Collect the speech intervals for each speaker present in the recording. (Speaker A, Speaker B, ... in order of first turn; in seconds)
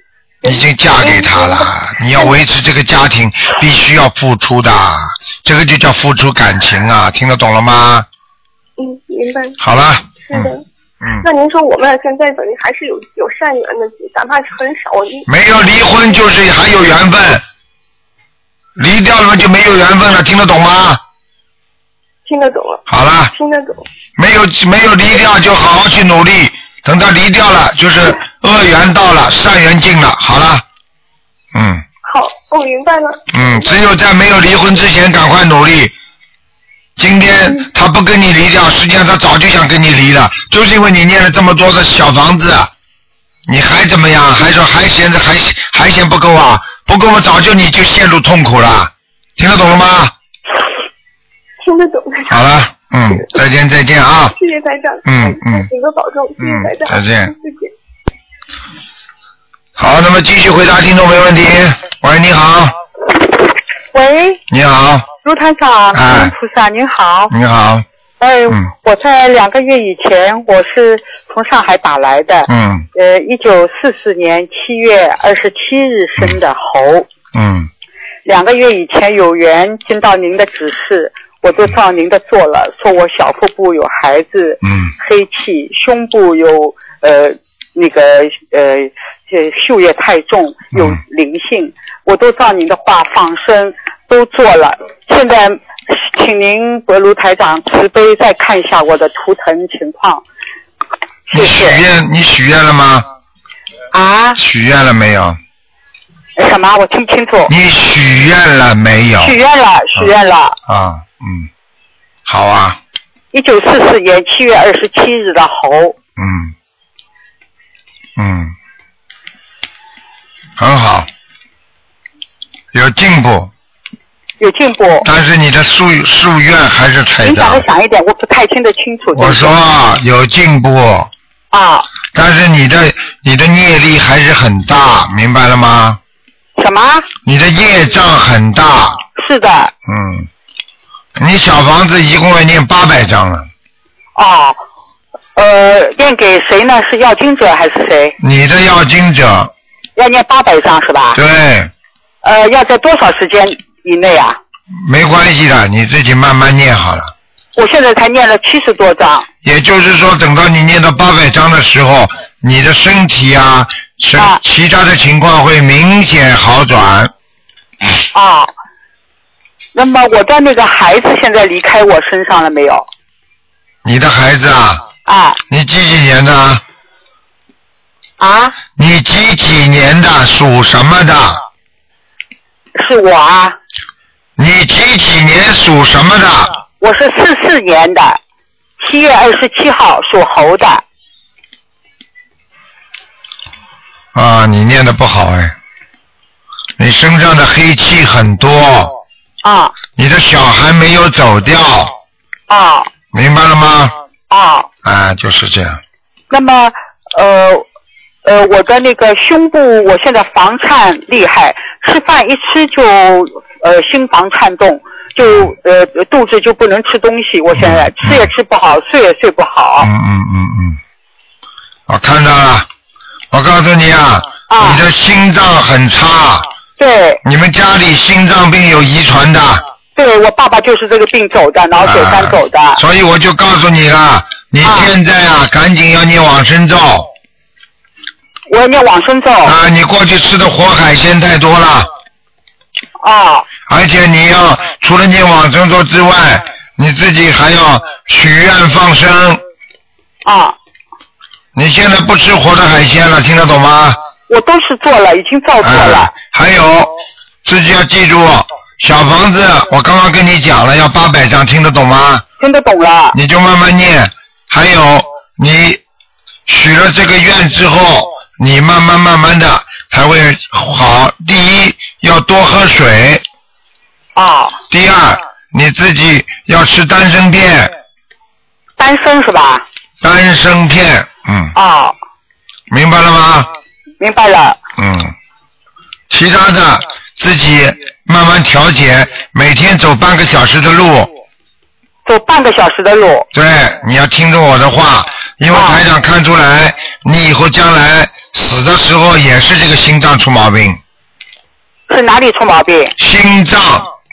Speaker A: 0.4-2.4, 8.8-9.6, 10.2-10.6, 11.2-15.3, 22.2-23.9, 32.0-33.6, 51.6-52.5, 54.3-57.7
Speaker B: 0.4-8.1, 9.6-11.2, 15.3-17.4, 18.8-21.0, 22.9-23.3, 24.2-30.6, 31.5-31.8, 33.3-35.9, 37.0-42.7, 43.5-50.1, 52.3-54.3, 55.0-55.7, 56.4-57.3, 59.8-62.8, 64.5-65.1, 65.9-66.3, 67.3-67.8, 72.5-72.9, 77.3-77.7, 84.6-84.9, 90.7-91.0, 101.3-103.1, 104.4-105.4, 107.5-109.4, 110.7-111.5, 112.2-112.8, 116.2-116.5, 118.2-118.5, 120.6-121.1, 122.7-123.5, 125.0-127.7, 129.1-131.1, 132.1-136.0, 137.2-139.0, 139.8-140.3, 141.2-143.5, 148.2-149.5, 151.1-151.7, 154.8-157.1, 159.4-167.1, 173.8-174.8, 175.5-176.6, 178.8-181.4, 184.4-186.5, 194.1-195.6, 196.8-198.9, 199.9-201.9, 203.1-203.9, 204.8-205.8, 215.2-215.5, 217.6-218.3, 219.8-220.8, 221.9-222.7, 223.3-226.5, 227.2-229.6, 231.8-237.1, 239.4-241.9, 243.7-249.4, 251.5-254.0, 255.6-256.9, 257.4-262.2, 263.1-265.8, 266.5-273.2, 274.7-277.7, 280.0-281.5, 282.7-283.5, 284.8-285.1, 286.1-291.1, 293.3-300.8, 303.0-303.9
Speaker C: 63.9-64.4, 65.2-67.3, 68.2-77.1, 78.2-100.2, 101.3-101.8, 103.9-104.4, 106.4-107.5, 109.2-110.5, 113.3-115.9, 124.4-125.0, 127.2-129.5, 131.5-131.9, 136.6-137.1, 139.2-139.7, 144.2-144.6, 145.3-148.2, 150.0-151.2, 152.2-154.4, 157.6-159.3, 168.1-168.5, 169.7-172.8, 175.1-175.4, 178.2-178.6, 182.8-183.6, 186.8-188.2, 188.8-190.8, 199.4-199.7, 202.5-202.9, 204.3-204.7, 206.3-207.6, 208.2-219.9, 224.5-224.8, 226.8-227.2, 229.9-232.8, 234.6-234.9, 238.5-239.6, 243.0-243.5, 250.2-250.5, 254.3-256.1, 262.4-263.1, 274.1-274.6, 278.8-279.6, 281.5-281.9, 284.0-284.6, 292.1-293.3, 295.5-295.8, 301.9-302.9